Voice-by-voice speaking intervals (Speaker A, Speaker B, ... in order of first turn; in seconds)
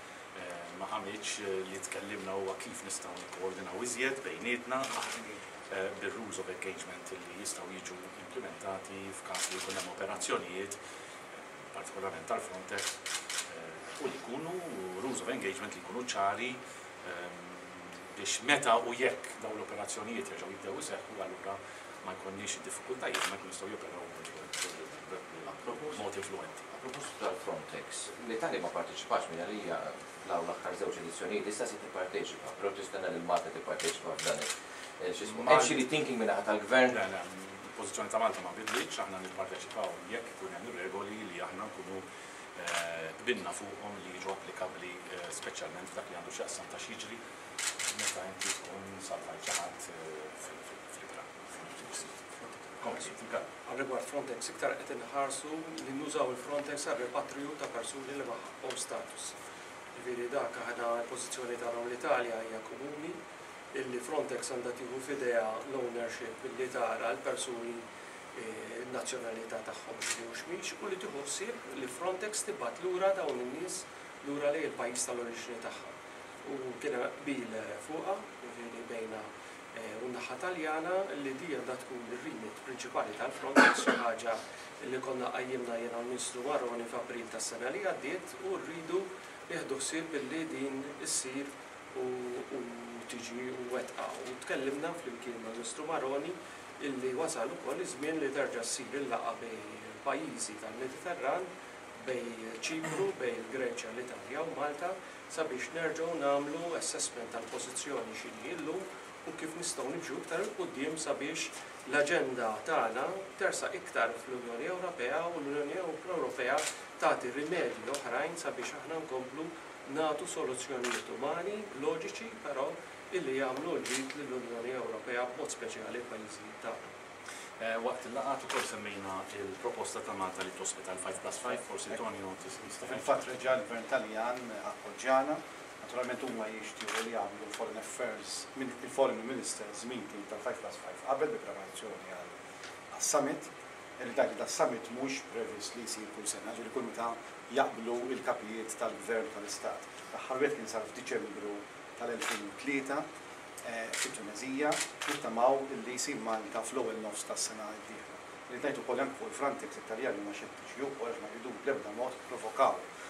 Speaker A: 0.3-10.8, 11.7-12.9, 13.5-26.7, 35.2-35.9, 36.9-47.2, 47.9-52.2, 52.8-53.5, 127.6-133.4
Speaker B: 25.7-26.0, 26.7-37.0
Speaker C: 52.5-53.0, 53.6-59.3, 59.9-63.2, 63.7-75.9, 76.4-126.8
Speaker D: 132.8-142.3, 142.9-153.1, 153.6-162.8